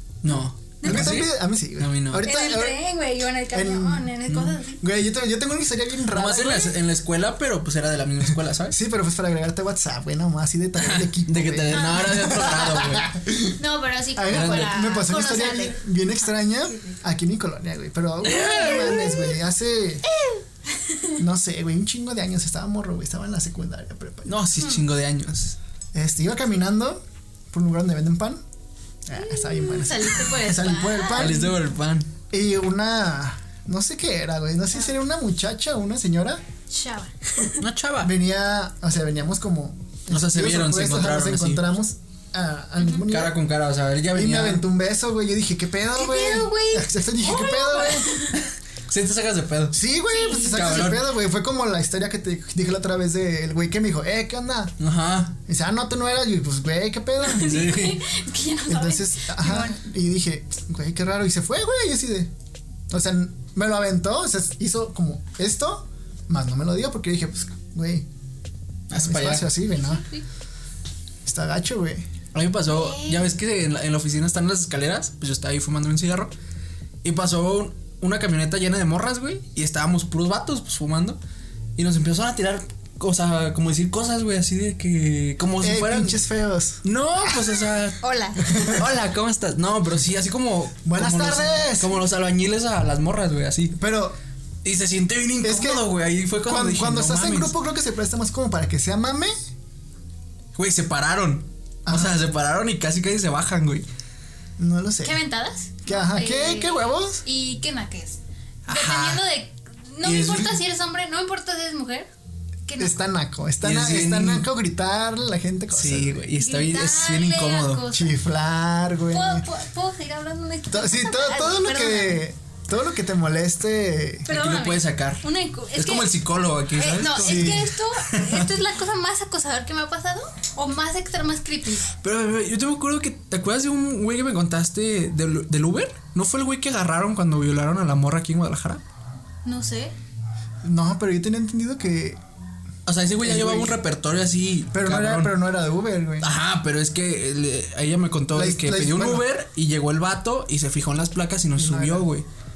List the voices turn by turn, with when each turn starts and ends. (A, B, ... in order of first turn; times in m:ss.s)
0:00.2-0:02.3 A
0:00.8-0:01.2 B
0:00.8-0:02.8 C
0:02.2-0:04.8 B
0:03.5-0:06.8 C
0:06.1-0:08.8 A
0:08.7-0:13.6 C
0:10.8-0:13.1 A
0:11.7-0:12.6 B
0:13.6-0:15.9 B
0:14.2-0:20.0 C
0:14.3-0:14.8 A
0:18.2-0:19.1 A
0:18.4-0:19.3 B
0:20.0-0:21.2 B
0:21.2-0:24.3 C
0:24.3-0:25.6 A
0:24.6-0:24.8 B
0:25.9-0:28.4 C
0:29.1-0:31.5 C
0:29.2-0:31.6 B
0:31.2-0:32.1 A
0:32.3-0:36.4 C
0:36.7-0:37.6 B
0:37.6-0:38.1 A
0:38.0-0:43.4 C
0:40.1-0:41.6 A
0:43.1-0:44.7 A
0:44.1-0:48.2 C
0:46.0-0:48.4 B
0:48.9-0:49.8 A
0:49.7-0:54.8 C
0:50.1-0:50.9 B
0:50.4-0:51.1 A
0:54.8-0:55.4 A
0:55.5-0:57.6 C
0:57.2-0:59.8 B
0:57.4-0:58.0 A
0:58.7-1:02.3 C
1:02.9-1:08.1 C
1:08.9-1:09.5 A
1:08.9-1:10.0 C
1:09.7-1:10.2 B
1:11.2-1:12.0 C
1:12.3-1:16.3 A
1:12.7-1:13.3 B
1:17.0-1:21.2 A
1:21.8-1:26.2 A
1:25.6-1:27.6 C
1:26.8-1:33.8 A
1:28.0-1:28.7 B
1:28.4-1:28.8 C
1:30.8-1:32.0 C
1:33.8-1:34.2 C
1:34.6-1:37.6 A
1:35.4-1:35.9 C
1:36.5-1:39.3 C
1:40.6-1:43.9 A
1:41.9-1:42.2 C
1:44.6-1:45.2 C
1:45.0-1:52.1 B
1:45.8-1:47.2 C
1:48.7-1:49.2 A
1:50.0-1:50.6 A
1:52.7-1:53.0 B
1:52.8-1:56.3 C
1:53.6-1:54.5 A
1:55.7-1:57.9 A
1:56.4-1:58.2 B
1:57.9-1:59.5 C
1:59.1-2:02.2 B
2:00.7-2:04.3 C
2:04.3-2:06.2 B
2:04.3-2:08.5 A
2:06.7-2:11.9 B
2:07.1-2:07.7 C
2:12.0-2:18.8 A
2:19.4-2:19.9 B
2:20.6-2:22.2 C
2:22.9-2:25.4 A
2:23.2-2:23.8 C
2:24.7-2:26.3 C
2:26.2-2:32.3 A
2:28.3-2:29.2 C
2:31.6-2:32.1 C